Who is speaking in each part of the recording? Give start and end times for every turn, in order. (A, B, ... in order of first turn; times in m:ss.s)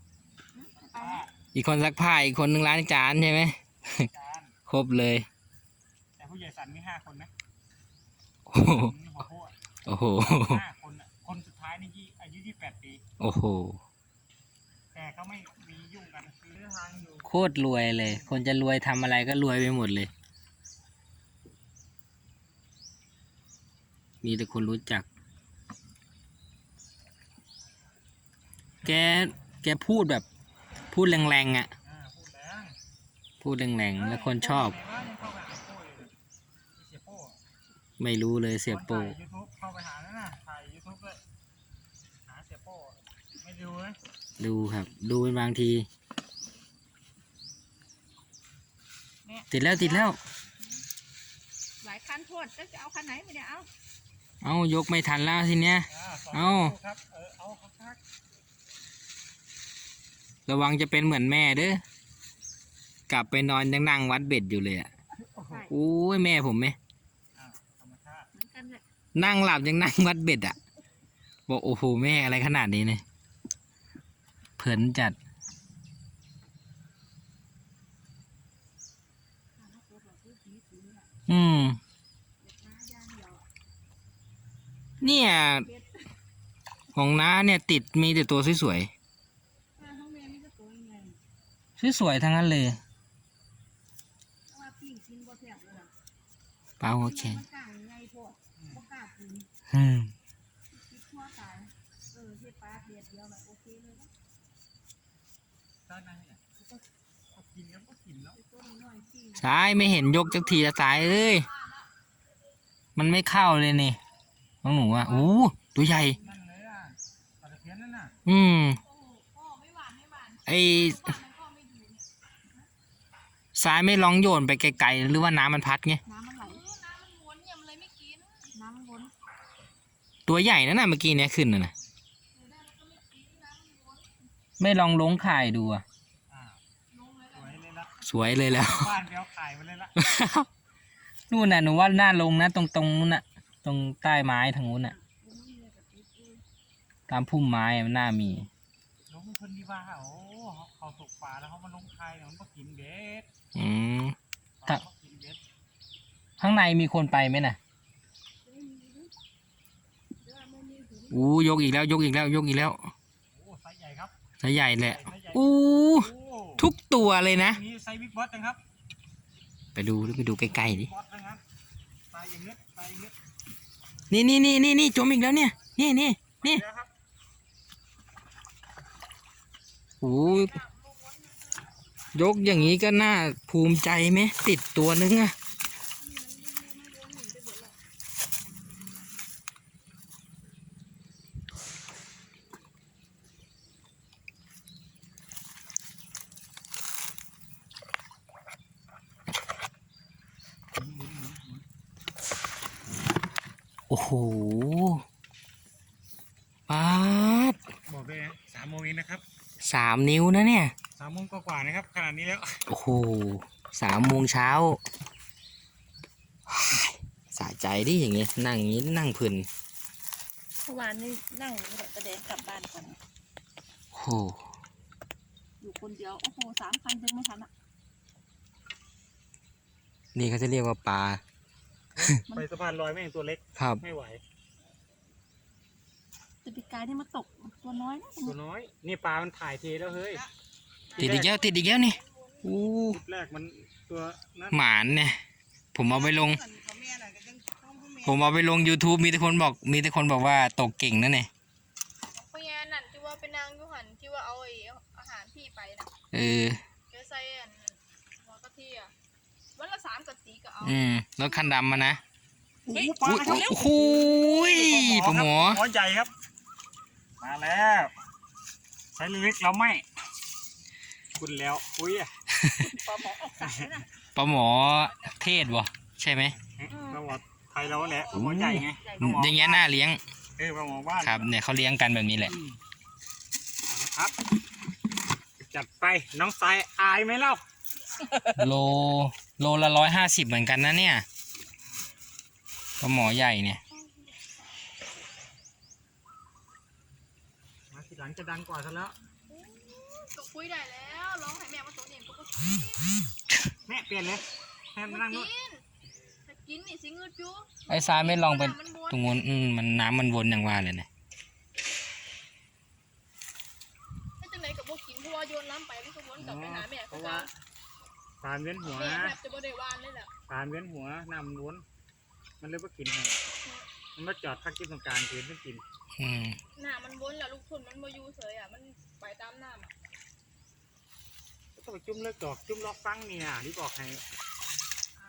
0:00.6-0:01.3 A
0:00.9-0:01.3 B
0:01.5-0:04.1 C
0:04.0-0:04.5 B
0:04.7-0:05.3 C
0:06.2-0:07.3 B
0:08.5-0:08.9 C
0:08.6-0:09.5 B
0:09.9-0:10.6 C
0:10.2-0:13.0 B
0:13.2-0:13.8 C
0:14.9-0:17.3 B
0:17.2-0:20.1 C
0:18.0-0:18.4 B
0:24.2-0:25.1 C
0:28.8-0:30.2 C
0:30.9-0:31.7 C
0:31.8-0:32.8 B
0:33.4-0:34.8 C
0:34.0-0:36.1 B
0:36.8-0:37.4 B
0:38.0-0:39.2 C
0:38.7-0:41.2 B
0:42.2-0:44.0 B
0:44.4-0:45.9 C
0:49.3-0:50.1 A
0:49.5-0:50.2 C
0:51.8-0:53.7 A
0:54.4-0:56.8 C
0:55.9-0:58.0 B
1:00.5-1:01.8 C
1:03.1-1:04.9 C
1:05.2-1:05.7 B
1:05.7-1:06.8 C
1:07.4-1:08.3 B
1:08.3-1:08.8 A
1:09.2-1:10.6 C
1:11.5-1:13.0 C
1:14.6-1:15.2 C
1:19.6-1:21.1 A
1:21.3-1:21.8 C
1:22.4-1:23.4 A
1:25.0-1:25.7 C
1:25.6-1:25.9 A
1:26.9-1:28.9 C
1:29.8-1:31.2 A
1:31.8-1:32.8 C
1:34.5-1:35.9 A
1:36.8-1:37.4 C
1:37.0-1:39.5 A
1:38.6-1:38.8 B
1:39.7-1:40.1 C
1:40.7-1:44.1 A
1:45.9-1:46.6 B
1:47.3-1:48.4 B
1:48.4-1:50.8 A
1:49.4-1:51.5 C
1:50.9-1:51.5 D
1:53.0-1:54.0 C
1:54.6-1:56.2 C
1:55.1-1:56.2 A
1:56.2-1:58.1 B
1:58.2-1:58.8 C
1:58.9-2:00.2 A
1:59.5-2:02.0 D
2:00.5-2:01.2 C
2:03.6-2:06.0 C
2:06.1-2:06.6 A
2:06.4-2:08.5 D
2:08.5-2:09.1 A
2:10.3-2:11.7 C
2:12.5-2:13.9 A
2:14.6-2:15.8 C
2:16.3-2:16.6 B
2:17.3-2:18.0 B
2:18.0-2:18.9 C
2:18.5-2:20.0 B
2:20.0-2:20.5 C
2:21.3-2:24.9 C
2:24.9-2:26.4 A
2:27.1-2:28.5 C
2:29.1-2:33.3 B
2:33.6-2:34.2 C
2:34.6-2:35.4 B
2:36.4-2:37.6 C
2:38.5-2:39.1 A
2:40.2-2:41.5 A
2:41.1-2:42.8 C
2:43.3-2:44.2 B
2:44.4-2:47.6 C
2:44.8-2:46.7 B
2:47.4-2:48.6 B
2:49.8-2:50.9 C
2:50.5-2:51.4 B
2:52.1-2:53.2 B
2:54.1-2:56.6 C
2:56.4-2:56.9 B
3:00.0-3:00.6 C
3:00.3-3:01.5 A
3:02.1-3:05.4 C
3:06.2-3:07.7 A
3:06.9-3:07.4 D
3:20.8-3:21.6 B
3:23.9-3:25.0 C
3:26.7-3:27.6 C
3:27.9-3:29.2 B
3:29.6-3:30.7 C
3:31.0-3:32.6 B
3:32.7-3:34.8 C
3:36.5-3:39.5 C
3:40.7-3:43.0 A
3:43.9-3:44.5 C
3:45.6-3:47.5 A
3:50.2-3:51.2 C
3:52.0-3:54.2 B
3:53.6-3:53.8 C
3:56.4-3:58.4 A
3:58.2-4:00.2 B
4:00.9-4:02.5 D
4:01.0-4:01.4 B
4:01.0-4:03.0 C
4:02.9-4:04.6 B
4:04.5-4:05.2 C
4:05.7-4:06.4 C
4:05.9-4:08.3 A
4:08.0-4:11.3 C
4:12.1-4:15.9 D
4:16.1-4:16.6 C
4:16.9-4:18.9 D
4:19.6-4:21.5 D
4:20.6-4:22.0 C
4:22.7-4:26.1 B
4:22.7-4:23.7 A
4:23.0-4:25.6 C
4:27.2-4:27.9 B
4:28.9-4:29.8 B
4:31.2-4:32.1 B
4:32.3-4:32.7 C
4:32.6-4:33.9 A
4:33.4-4:33.7 B
4:34.2-4:36.4 C
4:36.5-4:39.5 B
4:36.7-4:37.0 A
4:37.9-4:38.2 A
4:38.1-4:40.0 C
4:38.8-4:39.7 A
4:40.4-4:41.3 B
4:41.0-4:42.3 C
4:42.2-4:42.6 B
4:43.6-4:44.2 B
4:45.4-4:47.4 B
4:48.0-4:48.4 B
4:48.4-4:51.0 C
4:52.8-4:53.6 C
4:57.7-4:59.0 B
4:59.3-5:03.0 D
5:03.7-5:05.3 B
5:04.9-5:05.6 D
5:06.3-5:09.1 D
5:07.7-5:10.9 C
5:14.2-5:17.3 D
5:16.2-5:17.3 B
5:18.2-5:19.2 B
5:18.6-5:20.1 D
5:20.3-5:21.6 B
5:22.4-5:23.2 B
5:24.0-5:25.6 B
5:26.0-5:26.4 C
5:26.6-5:29.7 D
5:31.6-5:34.0 B